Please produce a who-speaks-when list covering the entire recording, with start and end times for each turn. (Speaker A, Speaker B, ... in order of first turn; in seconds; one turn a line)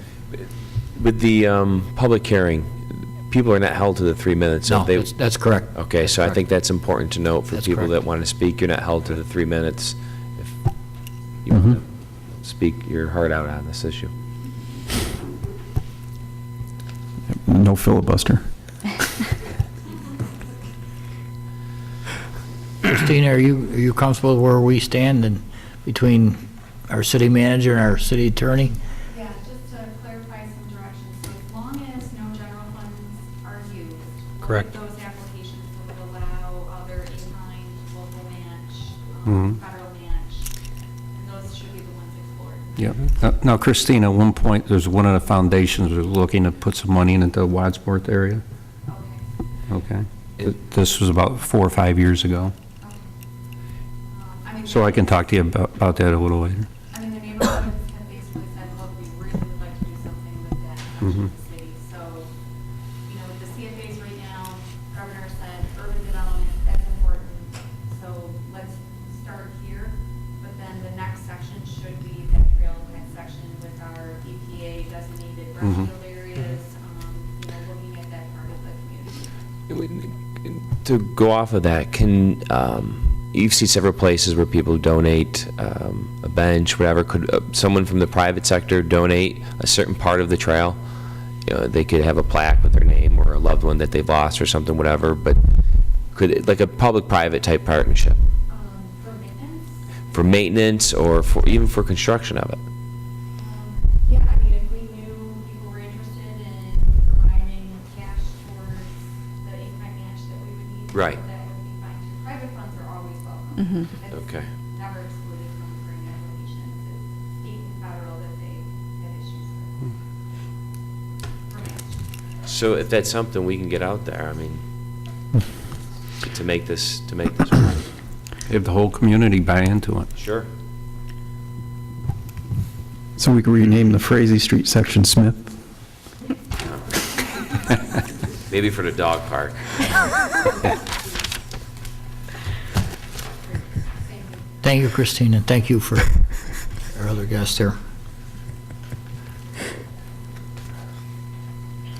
Speaker A: 0.3-5.1
Speaker B: 4.7-6.3
Speaker A: 5.7-10.6
Speaker B: 7.5-7.9
Speaker A: 11.4-11.8
Speaker A: 12.4-14.1
Speaker C: 17.3-18.4
Speaker B: 22.8-28.8
Speaker D: 29.1-40.5
Speaker E: 39.2-39.6
Speaker D: 41.1-43.0
Speaker E: 42.8-48.4
Speaker D: 48.9-49.1
Speaker E: 49.7-52.5
Speaker D: 54.2-54.9
Speaker C: 54.7-55.0
Speaker E: 54.7-56.7
Speaker D: 56.9-62.2
Speaker D: 63.1-79.3
Speaker A: 79.7-90.8
Speaker A: 91.4-95.4
Speaker A: 96.1-98.2
Speaker D: 98.5-99.7
Speaker A: 100.1-102.6
Speaker D: 103.4-108.9
Speaker D: 109.4-110.9
Speaker A: 110.9-111.2
Speaker D: 111.4-114.1
Speaker A: 114.1-114.5
Speaker D: 114.8-119.7
Speaker D: 121.5-121.8
Speaker A: 122.5-124.6
Speaker A: 126.3-127.9
Speaker E: 128.5-130.1
Speaker A: 130.2-130.5
Speaker C: 133.2-135.5
Speaker A: 138.5-139.8
Speaker D: 140.4-140.8
Speaker B: 144.6-146.1
Speaker B: 146.9-147.7